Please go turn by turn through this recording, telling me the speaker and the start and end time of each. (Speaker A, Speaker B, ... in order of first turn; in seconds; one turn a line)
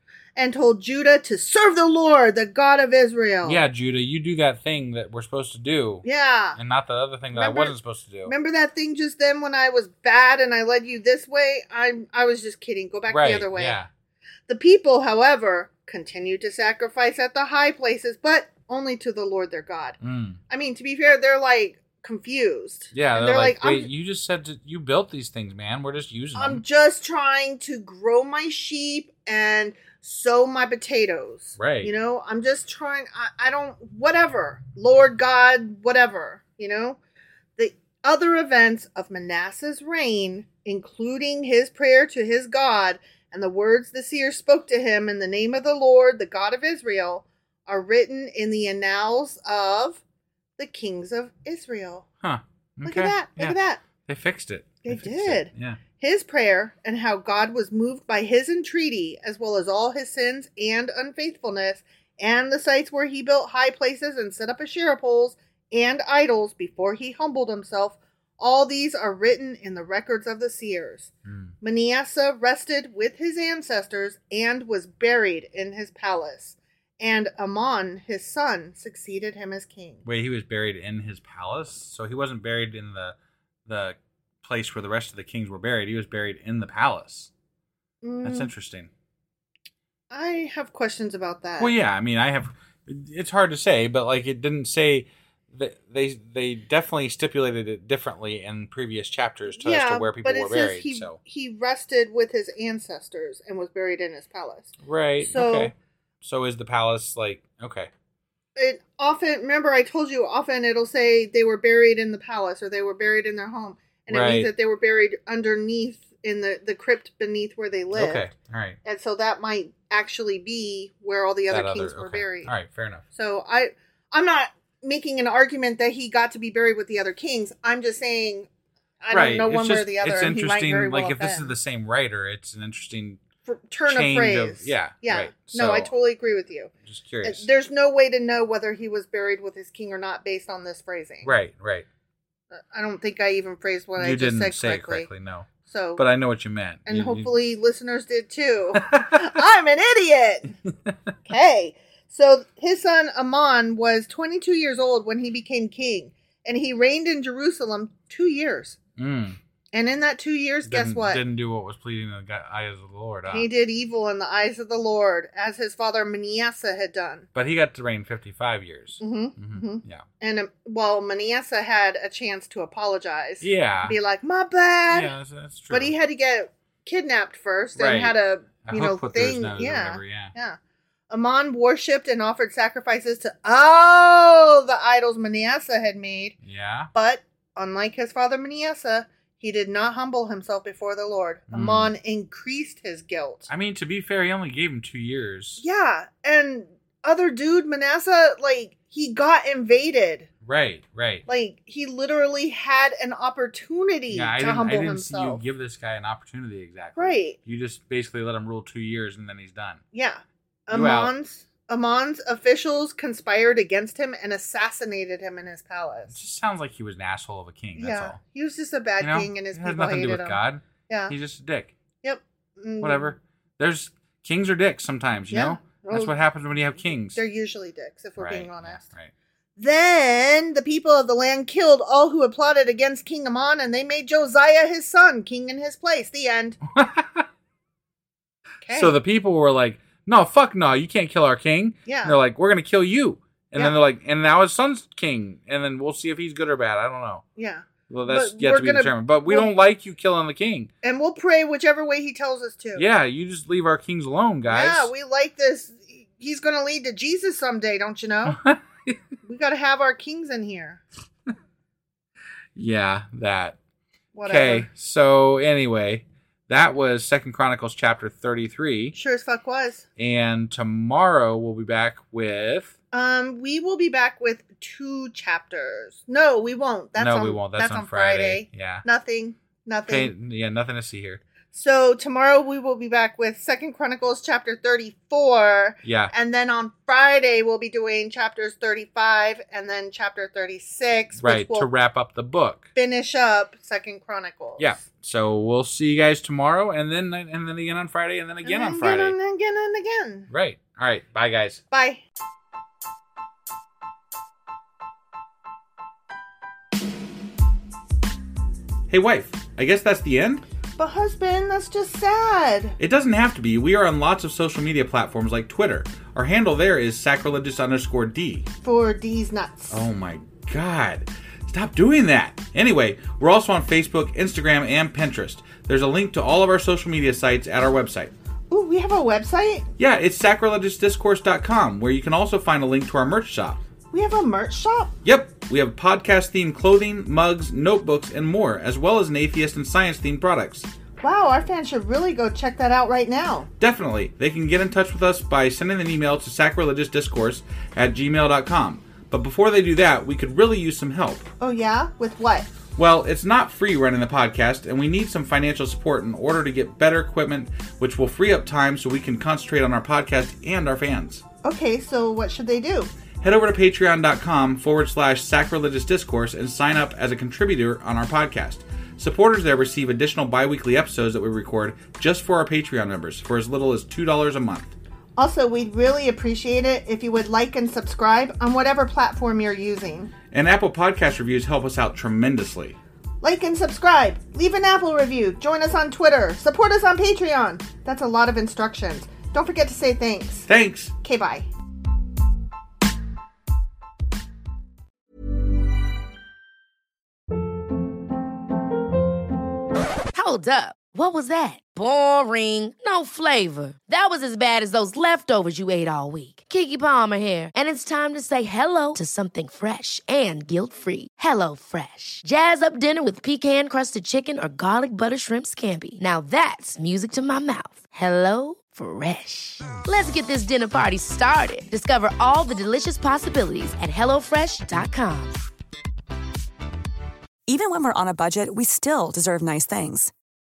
Speaker A: 0.4-3.6
Speaker B: 3.4-8.3
Speaker A: 6.0-6.6
Speaker A: 7.3-13.8
Speaker B: 13.1-13.9
Speaker A: 14.5-20.0
Speaker B: 20.0-20.4
Speaker A: 20.5-23.9
Speaker B: 22.9-26.6
Speaker A: 26.4-37.0
Speaker B: 31.6-31.9
Speaker A: 37.6-50.0
Speaker A: 50.6-52.1
Speaker B: 52.2-55.8
Speaker A: 52.8-53.8
Speaker A: 54.8-71.1
Speaker B: 71.3-71.5
Speaker A: 71.6-80.0
Speaker B: 80.0-83.2
Speaker B: 83.7-87.3
Speaker A: 88.0-88.5
Speaker B: 88.2-88.9
Speaker A: 90.1-91.8
Speaker B: 91.6-101.2
Speaker A: 99.5-105.7
Speaker B: 104.8-107.9
Speaker A: 108.6-118.3
Speaker B: 114.1-114.5
Speaker B: 117.9-118.8
Speaker A: 118.8-122.5
Speaker B: 121.5-123.0
Speaker A: 123.1-128.5
Speaker A: 129.0-131.6
Speaker B: 129.1-133.2
Speaker A: 133.5-136.7
Speaker B: 133.8-135.9
Speaker B: 136.8-137.5
Speaker A: 137.2-141.3
Speaker B: 141.2-141.9
Speaker A: 142.5-145.1
Speaker B: 144.0-147.4
Speaker A: 145.6-146.0
Speaker A: 146.9-150.6
Speaker B: 148.8-149.3
Speaker A: 151.3-158.8
Speaker B: 159.0-159.4
Speaker A: 159.7-161.2
Speaker B: 160.7-163.5
Speaker A: 163.3-167.3
Speaker B: 167.3-170.0
Speaker A: 169.0-175.1
Speaker B: 173.4-174.0
Speaker B: 174.9-175.9
Speaker A: 175.7-180.6
Speaker B: 177.8-180.3
Speaker A: 181.1-186.4
Speaker B: 186.4-186.9
Speaker A: 186.9-193.5
Speaker B: 191.5-191.9
Speaker B: 193.5-195.6
Speaker A: 195.6-200.3
Speaker B: 200.4-201.3
Speaker A: 201.3-205.4
Speaker B: 204.1-209.8
Speaker A: 207.0-207.4
Speaker A: 209.9-216.2
Speaker B: 210.7-211.1
Speaker B: 216.1-218.2
Speaker A: 217.8-221.2
Speaker B: 219.0-221.7
Speaker A: 222.0-223.2
Speaker B: 222.8-227.2
Speaker A: 225.3-226.2
Speaker A: 227.0-228.8
Speaker B: 228.2-229.1
Speaker A: 229.6-236.6
Speaker B: 236.7-237.2
Speaker A: 238.6-239.0
Speaker B: 238.7-247.2
Speaker A: 241.8-242.2
Speaker A: 247.4-249.5
Speaker B: 247.9-250.7
Speaker A: 250.8-252.9
Speaker B: 252.8-254.9
Speaker A: 254.5-258.4
Speaker B: 258.3-259.0
Speaker A: 259.2-260.8
Speaker B: 262.6-263.6
Speaker A: 264.1-264.7
Speaker B: 264.3-269.0
Speaker A: 268.9-269.9
Speaker B: 270.0-272.7
Speaker A: 272.9-280.1
Speaker B: 276.9-278.9
Speaker B: 279.9-281.2
Speaker A: 281.5-291.7
Speaker B: 285.8-286.1
Speaker B: 291.2-292.7
Speaker A: 292.8-294.9
Speaker B: 294.6-299.2
Speaker A: 298.4-300.3
Speaker B: 300.3-301.6
Speaker A: 301.7-302.0
Speaker B: 308.9-310.4
Speaker A: 310.8-312.8
Speaker B: 312.8-318.5
Speaker A: 318.6-319.9
Speaker B: 319.7-328.1
Speaker A: 328.5-329.7
Speaker B: 329.8-333.6
Speaker A: 333.9-334.9
Speaker B: 335.0-340.7
Speaker A: 341.0-343.5
Speaker B: 343.6-351.3
Speaker A: 351.4-352.5
Speaker B: 352.8-361.2
Speaker A: 361.4-362.9
Speaker B: 363.2-374.7
Speaker A: 375.2-380.1
Speaker B: 380.3-382.8
Speaker A: 383.2-390.5
Speaker B: 390.5-390.9
Speaker A: 391.0-391.5
Speaker C: 400.1-425.4
Speaker D: 427.5-430.1